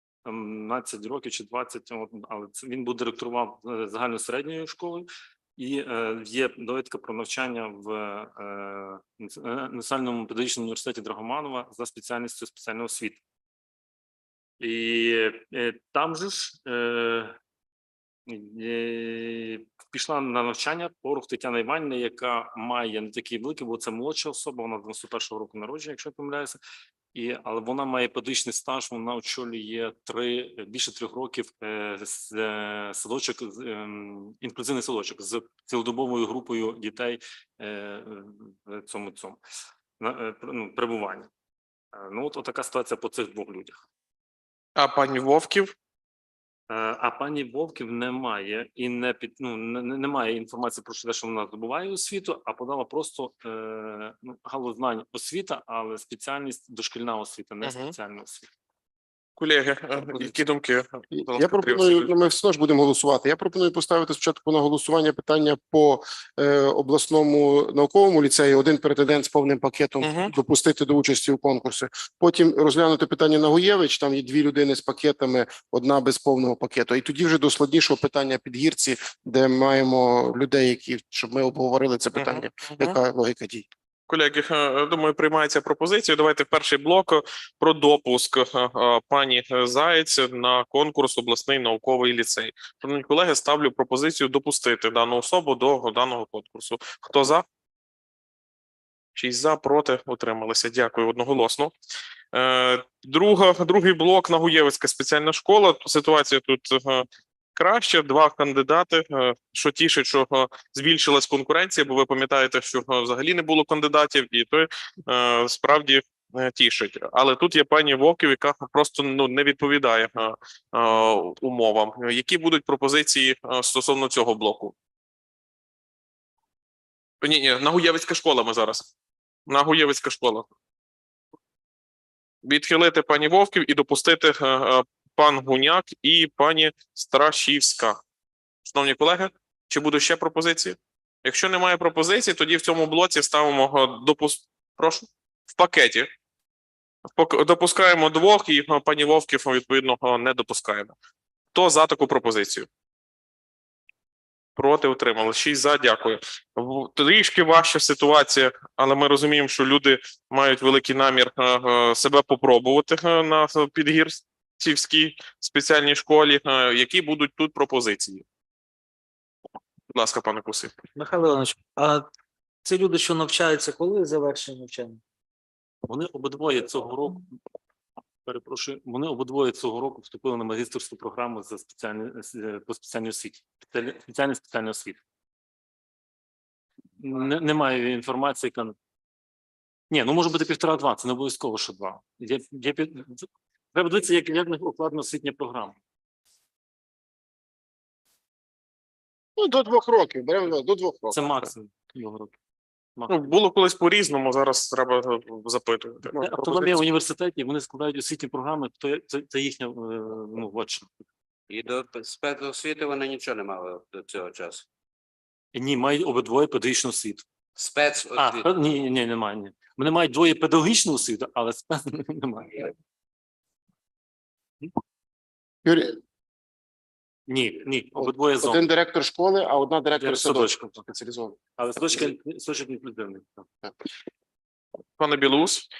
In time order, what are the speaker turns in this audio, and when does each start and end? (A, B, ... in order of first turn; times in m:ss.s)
0:00.2-0:13.2 A
0:14.6-0:17.4 A
0:18.3-0:26.6 A
0:27.1-0:39.4 A
0:40.0-0:41.3 A
0:41.9-0:43.8 A
0:44.8-0:45.7 B
0:46.7-0:58.5 A
0:57.6-0:57.9 B
0:59.4-1:02.1 B
1:01.1-1:23.6 C
1:10.0-1:10.3 B
1:22.2-1:23.0 B
1:24.1-1:37.4 B
1:39.1-1:41.7 B
1:42.3-2:04.7 B
2:07.2-2:08.9 B
2:09.5-2:10.5 B
2:12.4-2:18.0 B
2:18.6-2:26.1 B
2:27.1-2:30.9 B
2:31.5-2:32.7 B
2:34.6-2:48.2 B
2:49.9-2:50.7 B
2:51.0-2:52.0 D
2:52.6-2:55.0 D
2:55.8-2:57.3 A
2:58.2-3:05.0 A
3:07.0-3:08.7 A
3:09.9-3:15.8 A
3:19.4-3:21.2 C
3:21.1-3:22.3 A
3:23.1-3:26.8 B
3:26.1-3:30.9 A
3:31.5-3:34.6 E
3:35.5-3:37.2 A
3:37.6-3:38.4 E
3:38.2-3:42.7 A
3:45.6-3:46.0 C
3:47.3-3:48.6 A
3:48.0-3:51.4 C
3:50.0-3:50.8 A
3:51.6-3:53.5 A
3:55.0-3:55.7 B